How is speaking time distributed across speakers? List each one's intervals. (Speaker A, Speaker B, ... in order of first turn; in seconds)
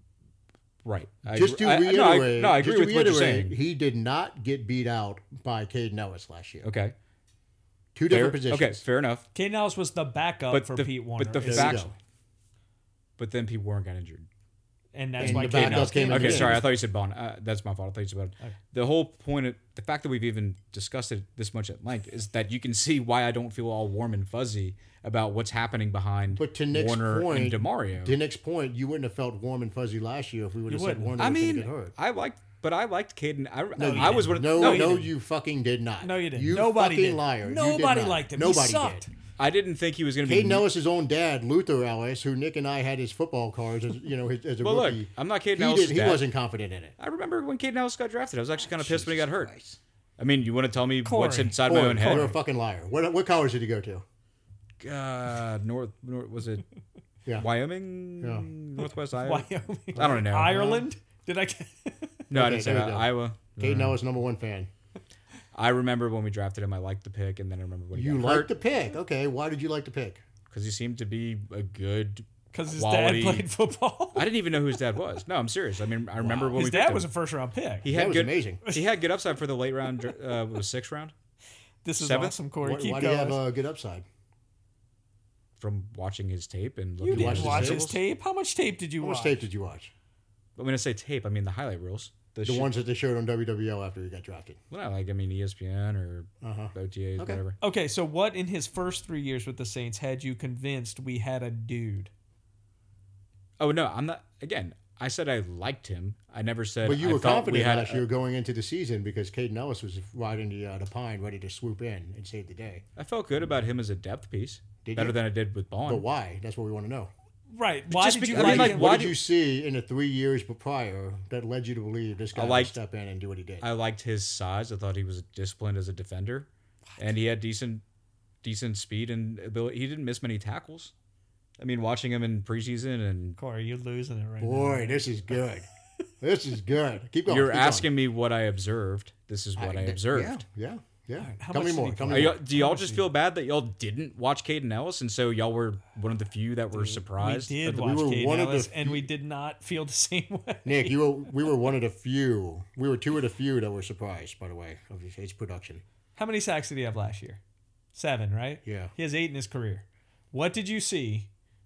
Speaker A: 0.8-3.6, 6.6-7.0, 8.1-9.3, 10.5-11.9, 13.2-14.3, 15.2-28.1, 31.2-35.0, 39.4-40.6, 44.6-46.3, 47.0-49.5, 50.2-52.4, 54.8-56.6, 57.4-60.7, 62.3-64.0, 65.5-68.5, 70.5-73.5, 74.2-77.1, 77.8-81.1, 82.0-82.4, 85.6-88.0, 90.6-92.7, 94.7-97.6, 103.6-108.0, 113.0-116.0, 117.9-119.2, 122.3-122.8, 123.6-127.8, 128.4-130.9, 131.6-133.4, 137.3-140.4, 142.1-147.8
Speaker B: 1.3-6.7, 8.0-8.8, 11.4-11.9, 15.2-16.6, 26.4-31.9, 33.8-39.1, 40.2-46.9, 48.7-49.8, 51.6-54.0, 58.2-58.5, 60.0-60.9, 62.3-64.7, 67.9-70.2, 76.2-76.6, 77.9-78.6, 82.6-84.1, 87.1-87.9, 89.0-89.9, 92.4-94.6, 96.4-97.4, 106.8-112.8, 114.8-115.2, 115.8-117.1, 118.3-123.7, 134.4-135.7, 136.2-137.9, 139.6-142.4, 147.7-149.1, 150.7-155.8, 158.7-158.9
Speaker C: 9.3-11.8, 14.9-16.7, 30.7-31.2, 33.8-35.1, 36.0-39.1, 51.0-52.4, 59.2-62.2, 72.5-74.3, 76.5-77.9, 81.8-83.4, 87.0-89.4, 97.6-102.1, 117.5-119.0, 133.4-135.0, 141.2-143.0, 146.8-151.0, 156.2-157.4, 157.9-161.3